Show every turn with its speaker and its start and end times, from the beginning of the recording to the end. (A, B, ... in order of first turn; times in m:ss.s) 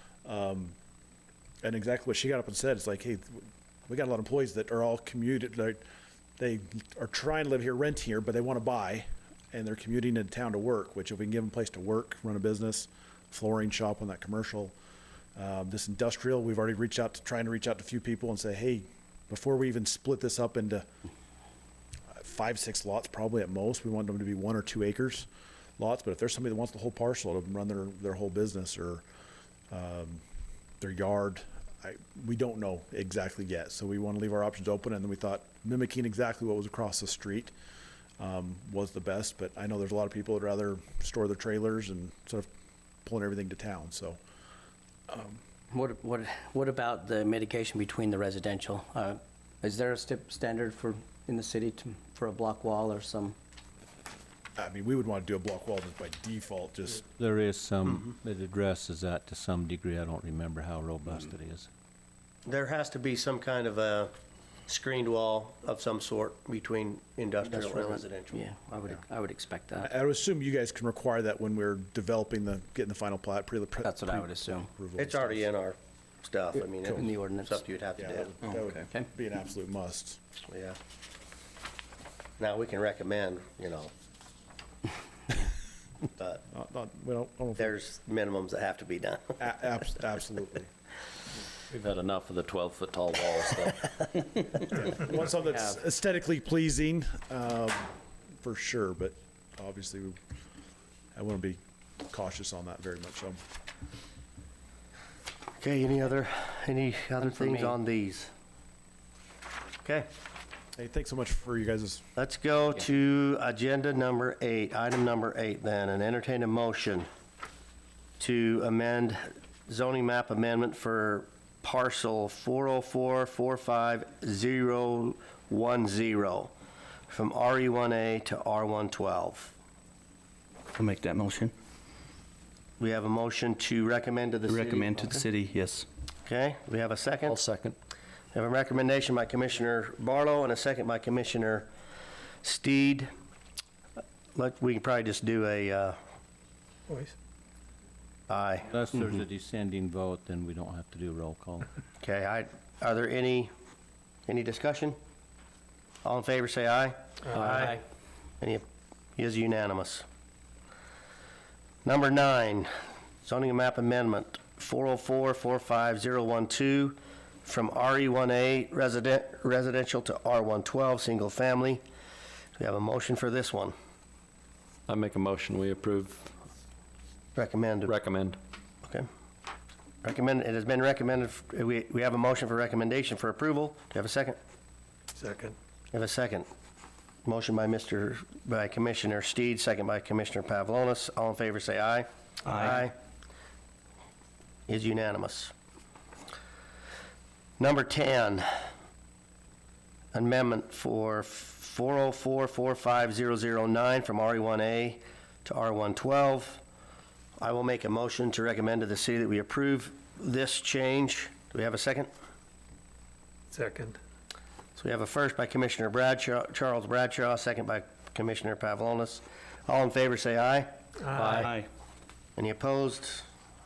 0:00.2-0:00.8 A
0:01.6-0:05.8 A
0:06.4-0:14.7 A
0:15.4-0:20.9 A
0:22.1-0:29.0 A
0:29.7-0:30.2 A
0:30.8-0:37.5 A
0:38.2-0:42.5 A
0:43.0-0:44.2 A
0:45.1-0:45.4 A
0:45.7-0:53.4 B
0:54.6-0:57.0 A
0:57.2-1:01.7 C
1:02.5-1:04.1 D
1:04.7-1:08.4 D
1:07.4-1:09.9 B
1:09.8-1:15.5 A
1:13.8-1:14.7 B
1:15.0-1:18.3 D
1:16.6-1:17.9 B
1:18.0-1:20.2 A
1:18.5-1:18.8 E
1:20.5-1:20.8 D
1:22.4-1:23.9 D
1:26.2-1:26.4 D
1:26.5-1:27.7 A
1:27.6-1:29.4 D
1:29.4-1:30.7 A
1:31.7-1:34.5 F
1:34.8-1:40.2 A
1:41.2-1:43.4 A
1:45.6-1:48.3 D
1:47.3-1:47.7 B
1:50.8-1:52.0 A
1:52.2-1:57.1 D
1:58.2-2:06.5 D
2:07.1-2:09.5 D
2:10.7-2:11.5 E
2:12.8-2:15.2 D
2:14.5-2:15.9 E
2:16.3-2:17.4 D
2:17.3-2:17.8 F
2:18.3-2:21.7 D
2:22.4-2:23.1 D
2:24.4-2:26.0 D
2:26.9-2:27.1 G
2:28.3-2:28.7 D
2:28.7-2:31.7 C
2:32.0-2:33.5 D
2:34.3-2:35.0 D
2:36.0-2:37.8 D
2:37.3-2:37.8 G
2:39.2-2:40.0 D
2:41.8-2:42.7 D
2:43.2-2:51.8 D
2:52.6-2:53.7 D
2:54.9-2:56.2 F
2:57.4-2:57.9 D
2:57.8-2:58.4 F
3:00.0-3:04.4 D
3:05.2-3:05.6 G
3:05.9-3:06.5 D
3:07.2-3:12.9 D
3:12.5-3:12.9 E
3:14.7-3:15.5 D
3:17.6-3:18.5 D
3:20.1-3:26.6 D
3:27.4-3:32.1 D
3:33.5-3:34.0 G
3:34.8-3:40.7 D
3:41.0-3:41.4 G
3:41.2-3:41.5 F
3:41.3-3:41.7 E
3:42.4-3:43.3 D